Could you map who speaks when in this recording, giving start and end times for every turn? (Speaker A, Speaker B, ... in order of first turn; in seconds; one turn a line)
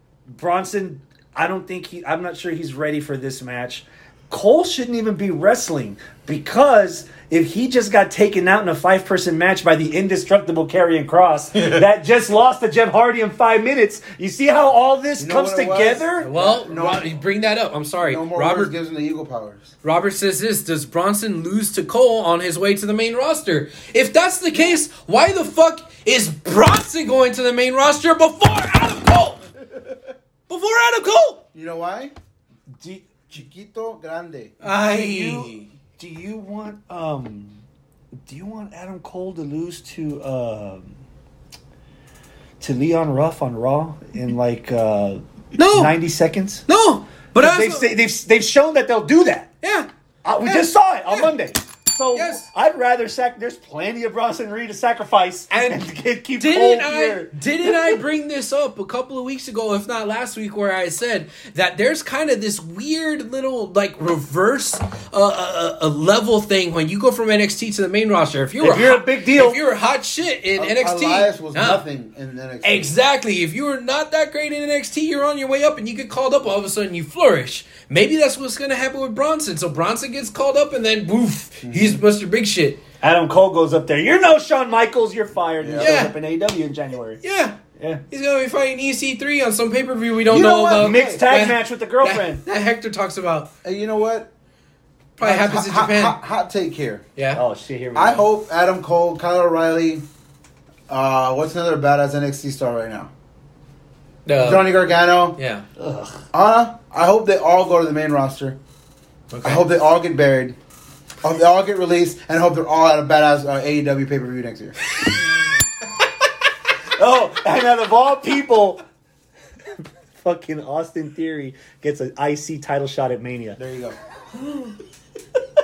Speaker A: 0.3-16.3
Speaker B: 15.2-17.1
Speaker C: 16.2-18.7
Speaker B: 18.0-19.7
Speaker C: 19.8-29.4
Speaker C: 30.5-31.4
Speaker B: 31.5-32.1
Speaker A: 32.8-33.1
Speaker B: 33.3-34.5
Speaker C: 34.6-35.7
Speaker A: 34.8-37.6
Speaker A: 38.3-40.9
Speaker A: 42.6-46.6
Speaker C: 45.6-46.0
Speaker C: 46.7-47.9
Speaker A: 47.4-49.5
Speaker C: 49.6-49.9
Speaker A: 50.2-58.0
Speaker C: 50.4-51.3
Speaker C: 52.1-52.4
Speaker C: 55.5-55.9
Speaker C: 56.4-71.8
Speaker A: 68.6-69.6
Speaker B: 70.6-72.9
Speaker C: 72.6-82.8
Speaker B: 81.6-82.0
Speaker A: 83.0-87.2
Speaker B: 85.6-85.9
Speaker C: 85.8-86.1
Speaker C: 87.2-87.6
Speaker A: 87.8-88.0
Speaker C: 88.1-93.5
Speaker B: 90.3-91.2
Speaker A: 90.8-92.4
Speaker B: 93.6-94.3
Speaker C: 95.2-96.2
Speaker B: 95.2-97.0
Speaker A: 97.3-98.2
Speaker B: 98.0-100.0
Speaker B: 100.9-103.1
Speaker C: 104.3-104.8
Speaker B: 104.4-105.4
Speaker C: 105.4-105.7
Speaker A: 105.8-106.2
Speaker B: 106.3-108.6
Speaker C: 109.3-109.7
Speaker B: 109.4-110.6
Speaker B: 111.2-114.8
Speaker A: 117.0-118.8
Speaker A: 120.2-123.6
Speaker B: 123.6-124.0